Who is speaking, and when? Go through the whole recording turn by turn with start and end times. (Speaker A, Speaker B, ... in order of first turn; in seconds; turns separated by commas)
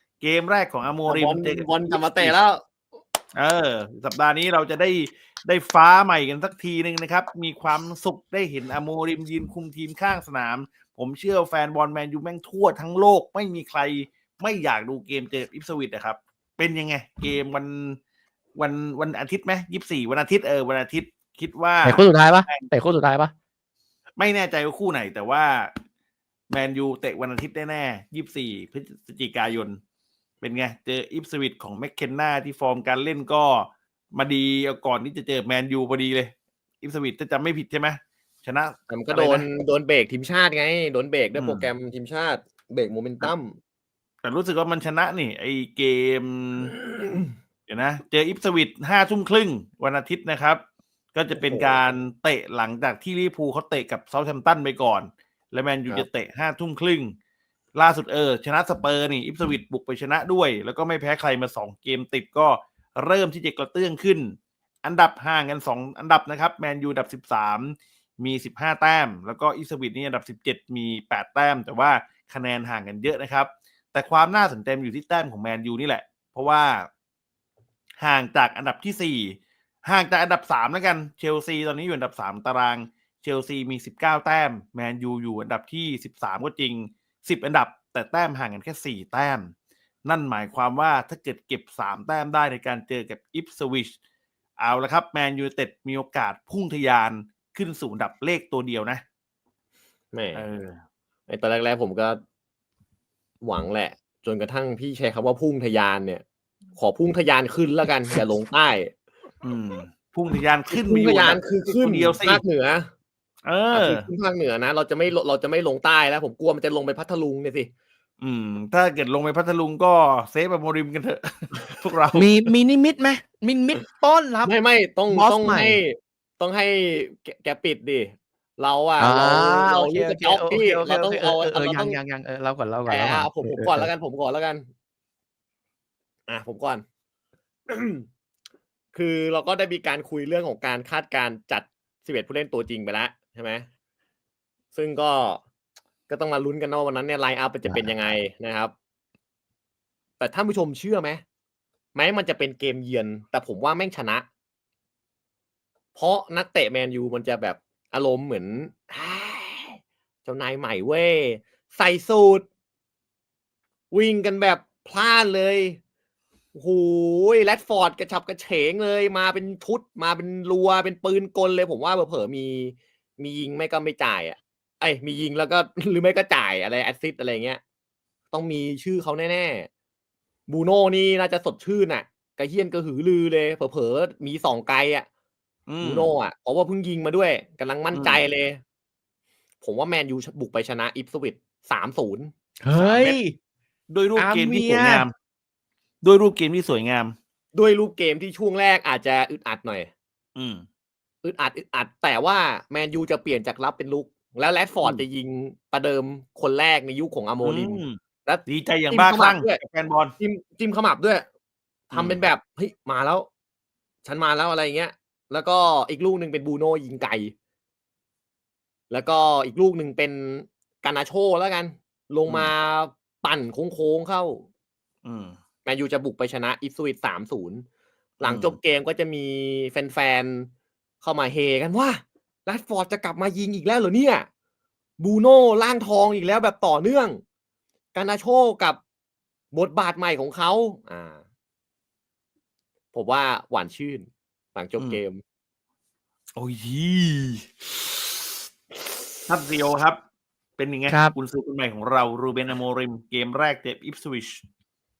Speaker A: 0.2-2.4, Speaker B: 1.1-2.6, Speaker A: 3.4-18.0, Speaker A: 18.6-22.7, Speaker C: 21.8-23.3, Speaker A: 24.2-25.7, Speaker A: 26.5-29.8, Speaker A: 30.4-39.5, Speaker B: 38.9-43.6, Speaker A: 41.4-41.7, Speaker A: 44.2-46.7, Speaker B: 46.7-47.3, Speaker A: 47.7-50.6, Speaker A: 51.1-57.1, Speaker B: 51.4-51.9, Speaker A: 57.7-76.9, Speaker A: 78.0-89.5, Speaker A: 90.0-93.9, Speaker A: 94.6-99.0, Speaker B: 100.1-100.5, Speaker A: 100.3-100.8, Speaker B: 101.3-102.2, Speaker B: 103.4-106.2, Speaker B: 106.8-108.9, Speaker A: 109.4-112.4, Speaker B: 110.7-112.9, Speaker A: 113.4-114.1, Speaker B: 113.7-117.7, Speaker A: 118.2-122.3, Speaker C: 122.1-124.5, Speaker B: 124.4-132.0, Speaker C: 125.1-125.8, Speaker C: 129.0-133.9, Speaker B: 132.9-134.7, Speaker B: 136.3-136.8, Speaker B: 137.7-138.1, Speaker B: 138.9-143.7, Speaker B: 144.7-145.4, Speaker B: 146.1-148.7, Speaker B: 150.2-151.2, Speaker B: 151.9-154.2, Speaker B: 155.9-162.4, Speaker B: 163.9-165.8, Speaker B: 166.5-177.6, Speaker B: 178.3-179.7, Speaker B: 180.5-185.1, Speaker A: 185.7-186.1, Speaker B: 185.8-188.6, Speaker A: 187.9-188.2, Speaker B: 189.6-192.3, Speaker C: 192.6-193.3, Speaker A: 192.7-193.2, Speaker A: 193.9-195.1, Speaker C: 194.2-195.1, Speaker A: 196.0-197.2, Speaker B: 197.5-199.9, Speaker A: 200.3-200.6, Speaker B: 201.2-209.6, Speaker A: 207.4-210.1, Speaker B: 210.2-211.2, Speaker B: 211.9-213.3, Speaker A: 211.9-212.2, Speaker B: 214.0-217.3, Speaker B: 218.9-224.4, Speaker A: 225.0-225.4, Speaker B: 225.6-227.6, Speaker B: 228.2-230.5, Speaker A: 228.2-228.6, Speaker B: 231.0-234.3, Speaker B: 235.0-237.2, Speaker B: 237.9-238.8, Speaker B: 239.5-241.2, Speaker B: 242.9-245.2, Speaker A: 246.3-247.8, Speaker A: 249.3-250.0, Speaker A: 250.6-254.4, Speaker C: 250.9-251.1